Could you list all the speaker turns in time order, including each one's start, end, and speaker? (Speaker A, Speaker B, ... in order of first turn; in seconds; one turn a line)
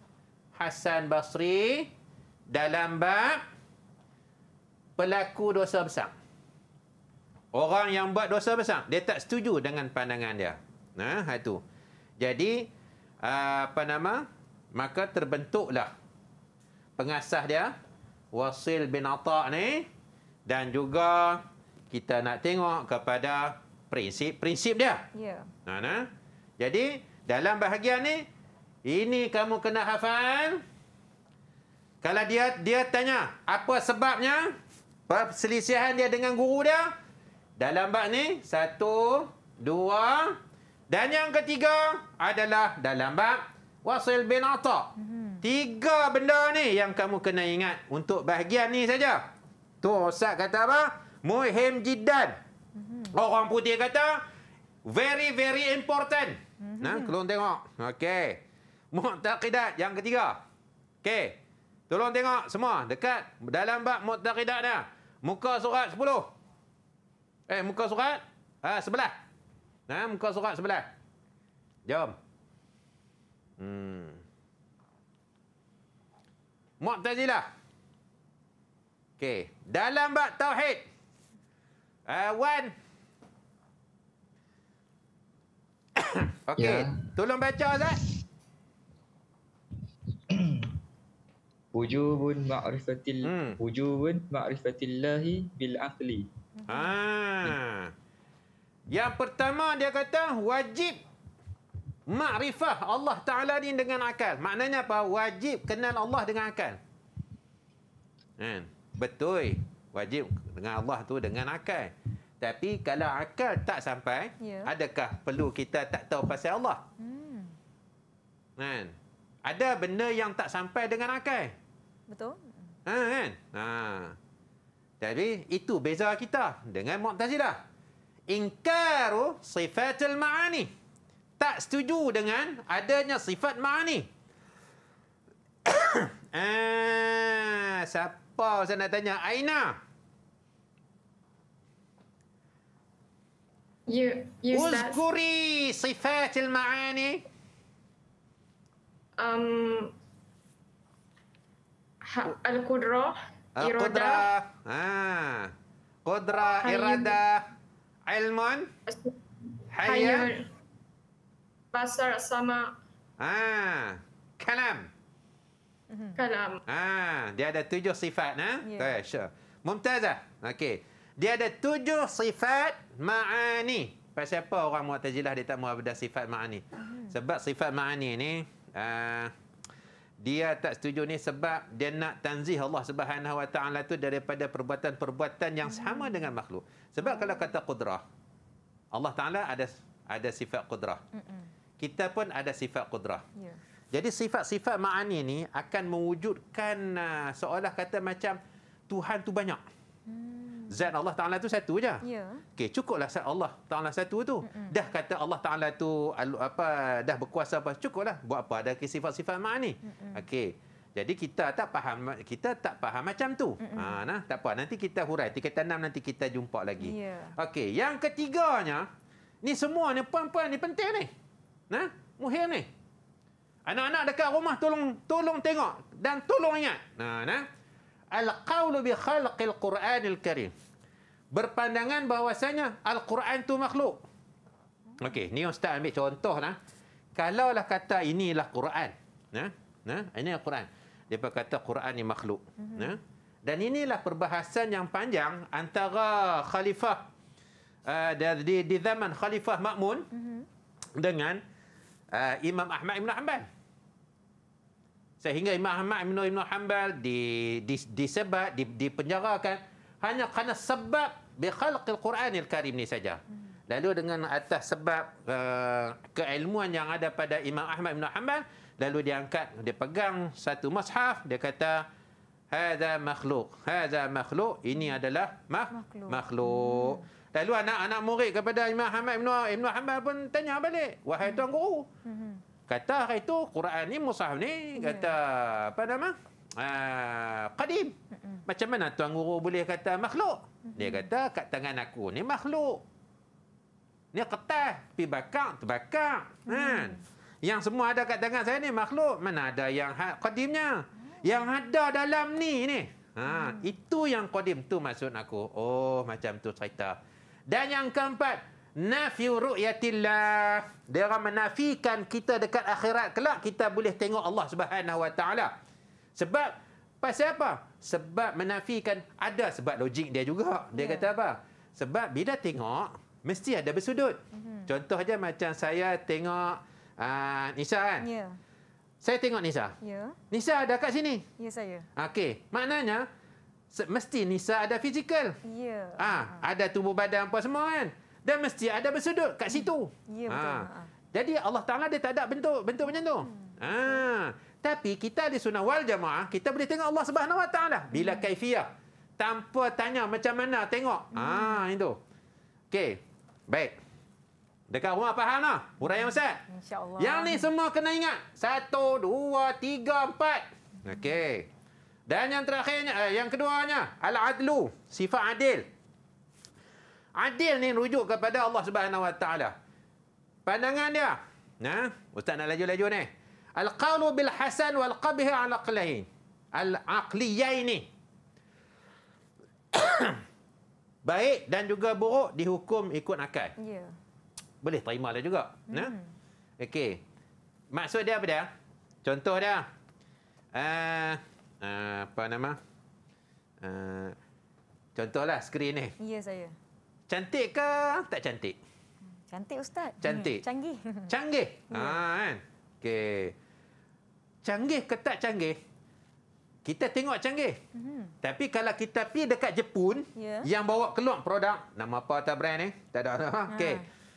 Speaker A: 0.6-1.9
Speaker A: 2.5-3.4
Speaker A: 5.0-6.1
Speaker A: 7.5-11.6
Speaker A: 12.2-12.7
Speaker A: 13.2-15.9
Speaker A: 17.0-17.7
Speaker A: 18.3-19.9
Speaker A: 20.4-25.1
Speaker B: 25.1-25.5
Speaker A: 25.7-28.3
Speaker A: 28.8-30.6
Speaker A: 32.0-34.5
Speaker A: 35.1-36.9
Speaker A: 37.6-40.4
Speaker A: 40.9-49.2
Speaker B: 45.0-45.4
Speaker A: 49.8-52.4
Speaker B: 52.8-53.1
Speaker A: 53.1-54.2
Speaker A: 54.8-60.4
Speaker B: 56.6-57.1
Speaker A: 61.0-61.4
Speaker A: 61.9-66.3
Speaker A: 67.5-69.1
Speaker A: 69.9-70.9
Speaker A: 71.9-72.2
Speaker A: 73.6-74.2
Speaker A: 76.8-77.5
Speaker A: 79.2-80.9
Speaker A: 82.0-82.7
Speaker A: 86.0-88.0
Speaker C: 86.6-87.0
Speaker C: 90.3-90.7
Speaker C: 91.7-96.3
Speaker A: 93.2-93.6
Speaker B: 96.6-96.9
Speaker A: 96.7-97.9
Speaker A: 98.9-101.0
Speaker A: 102.1-106.8
Speaker A: 108.4-116.8
Speaker B: 114.4-114.7
Speaker B: 117.0-117.6
Speaker A: 118.6-118.9
Speaker A: 119.5-121.5
Speaker B: 122.1-122.7
Speaker A: 122.9-124.2
Speaker A: 125.0-127.6
Speaker A: 128.3-130.7
Speaker A: 131.4-134.1
Speaker A: 135.7-139.8
Speaker D: 143.9-145.0
Speaker A: 144.5-147.2
Speaker D: 149.2-149.9
Speaker D: 152.1-154.3
Speaker A: 153.6-155.5
Speaker A: 156.1-157.5
Speaker D: 156.6-157.2
Speaker A: 158.1-158.7
Speaker D: 158.9-159.2
Speaker A: 159.7-160.3
Speaker D: 159.8-160.4
Speaker D: 161.7-162.7
Speaker A: 163.2-164.9
Speaker B: 165.9-166.2
Speaker D: 166.2-166.6
Speaker A: 166.7-179.3
Speaker B: 168.6-169.0
Speaker B: 176.8-177.1
Speaker A: 180.2-188.0
Speaker B: 185.7-186.2
Speaker B: 187.0-187.5
Speaker A: 188.9-191.0
Speaker B: 191.1-191.5
Speaker A: 191.8-193.2
Speaker A: 193.9-199.6
Speaker B: 200.1-200.9
Speaker A: 200.7-202.0
Speaker B: 202.0-202.4
Speaker A: 202.6-218.9
Speaker B: 204.4-204.7
Speaker B: 209.8-210.2
Speaker B: 213.6-214.0
Speaker B: 216.8-217.3
Speaker A: 219.4-221.1
Speaker A: 221.7-222.7
Speaker A: 223.7-227.4
Speaker A: 228.1-230.5
Speaker A: 231.3-234.0
Speaker A: 235.0-236.6
Speaker A: 237.2-247.0
Speaker B: 242.6-243.0
Speaker A: 247.9-250.1
Speaker B: 250.1-250.5
Speaker A: 251.0-251.4
Speaker A: 252.1-253.5
Speaker A: 255.2-271.8
Speaker A: 272.5-281.9
Speaker B: 275.7-277.0
Speaker B: 282.1-282.4
Speaker A: 282.7-287.9
Speaker B: 284.8-285.1
Speaker B: 288.1-288.4
Speaker A: 288.5-292.8
Speaker B: 290.6-291.1
Speaker A: 294.1-315.5
Speaker B: 296.5-297.0
Speaker B: 303.3-303.6
Speaker A: 316.2-328.1
Speaker B: 320.7-321.1
Speaker B: 324.3-324.7
Speaker B: 328.0-328.4
Speaker A: 329.0-329.7
Speaker B: 329.8-330.2
Speaker A: 330.3-331.2
Speaker B: 331.4-331.9
Speaker A: 331.9-333.1
Speaker A: 333.7-335.4
Speaker B: 335.4-336.4
Speaker A: 336.0-352.0
Speaker B: 339.5-340.9
Speaker B: 342.9-344.0
Speaker B: 347.9-348.2
Speaker B: 351.1-351.6
Speaker A: 352.7-353.8
Speaker A: 354.7-356.4
Speaker B: 355.8-357.5
Speaker A: 357.0-361.5
Speaker A: 362.1-365.7
Speaker A: 367.2-369.6
Speaker A: 370.4-377.9
Speaker A: 379.7-380.2
Speaker A: 381.0-383.5
Speaker B: 383.6-383.9
Speaker A: 384.6-385.9
Speaker B: 385.7-386.1
Speaker A: 386.6-387.0
Speaker A: 387.7-388.5
Speaker A: 389.0-389.7
Speaker A: 390.5-392.6
Speaker A: 393.6-394.2
Speaker A: 394.9-395.9
Speaker B: 396.0-396.5
Speaker A: 397.1-398.6
Speaker B: 399.2-401.1
Speaker A: 400.0-400.4
Speaker A: 401.1-403.3
Speaker B: 401.7-402.0
Speaker A: 404.4-405.6
Speaker A: 406.6-407.6
Speaker B: 407.7-408.1
Speaker A: 408.2-413.8
Speaker B: 410.2-410.5
Speaker B: 413.5-413.8